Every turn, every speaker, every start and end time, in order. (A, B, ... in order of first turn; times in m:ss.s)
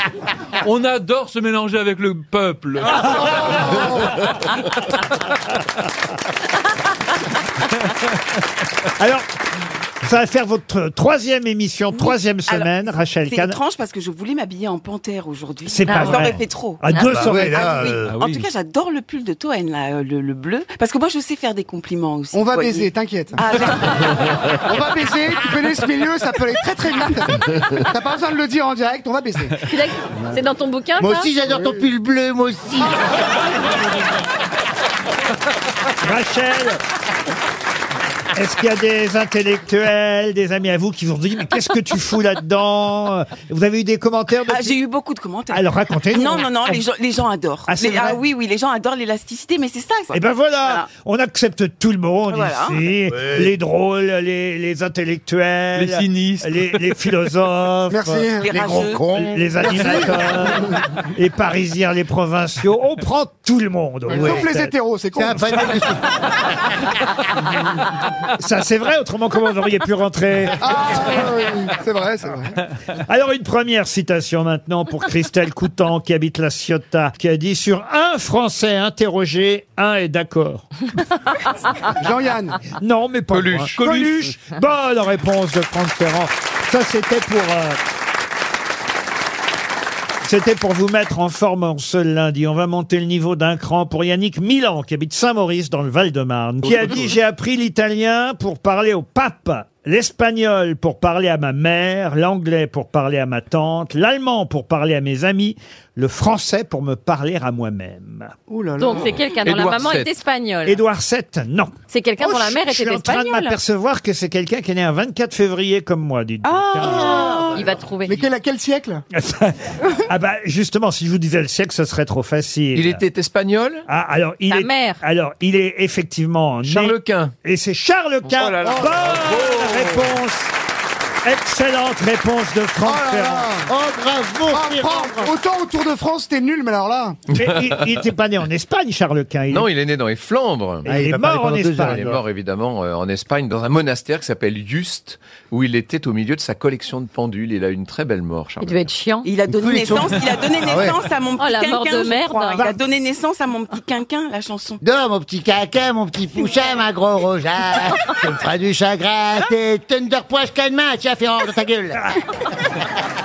0:00.6-0:03.6 A
0:03.1-0:04.2 B
0:09.0-0:09.3 C
0:10.0-0:13.6 C
0:12.0-0:24.3 D
0:15.7-0:17.9 C
0:15.9-0:16.4 E
0:17.0-0:18.1 F
0:18.0-0:18.4 A
0:22.3-0:29.6 B
0:29.6-0:31.3 E
0:31.0-0:33.2 F
0:31.5-0:31.8 B
0:36.0-0:36.8 C
0:38.3-0:44.8 C
0:44.4-0:50.9 D
0:45.5-0:46.8 C
0:47.7-0:48.2 C
0:50.1-1:04.7 C
0:52.3-0:52.9 D
0:53.1-0:53.5 F
0:55.8-0:56.9 A
0:57.9-0:58.6 B
0:58.4-0:59.2 D
0:58.6-1:00.0 F
0:59.6-1:00.7 B
1:04.1-1:04.5 F
1:04.1-1:05.8 B
1:05.2-1:06.4 F
1:08.3-1:11.1 C
1:10.6-1:12.6 B
1:13.1-1:20.7 C
1:22.0-1:22.6 B
1:22.7-1:27.8 C
1:23.3-1:24.1 G
1:23.8-1:24.1 B
1:30.2-1:48.4 C
1:36.7-1:37.1 F
1:48.5-1:49.2 B
1:48.8-1:50.8 E
1:49.4-1:50.1 G
1:50.6-1:57.2 C
1:51.9-1:53.6 E
1:56.5-1:57.4 D
1:56.7-1:57.6 F
1:57.5-1:58.2 E
1:58.1-1:59.0 B
1:59.1-2:03.0 C
2:02.7-2:03.9 G
2:03.9-2:10.5 C
2:04.5-2:05.0 E
2:06.6-2:07.3 G
2:08.3-2:10.0 G
2:08.6-2:09.1 F
2:11.2-2:13.5 C
2:12.8-2:13.7 B
2:13.7-2:15.4 F
2:14.5-2:17.2 B
2:17.4-2:18.0 G
2:17.4-2:19.7 C
2:19.5-2:20.9 G
2:20.9-2:22.1 C
2:20.9-2:22.2 F
2:21.8-2:28.8 G
2:28.6-2:29.3 E
2:29.2-2:34.8 D
2:29.5-2:31.0 F
2:31.4-2:32.6 E
2:34.8-2:42.0 F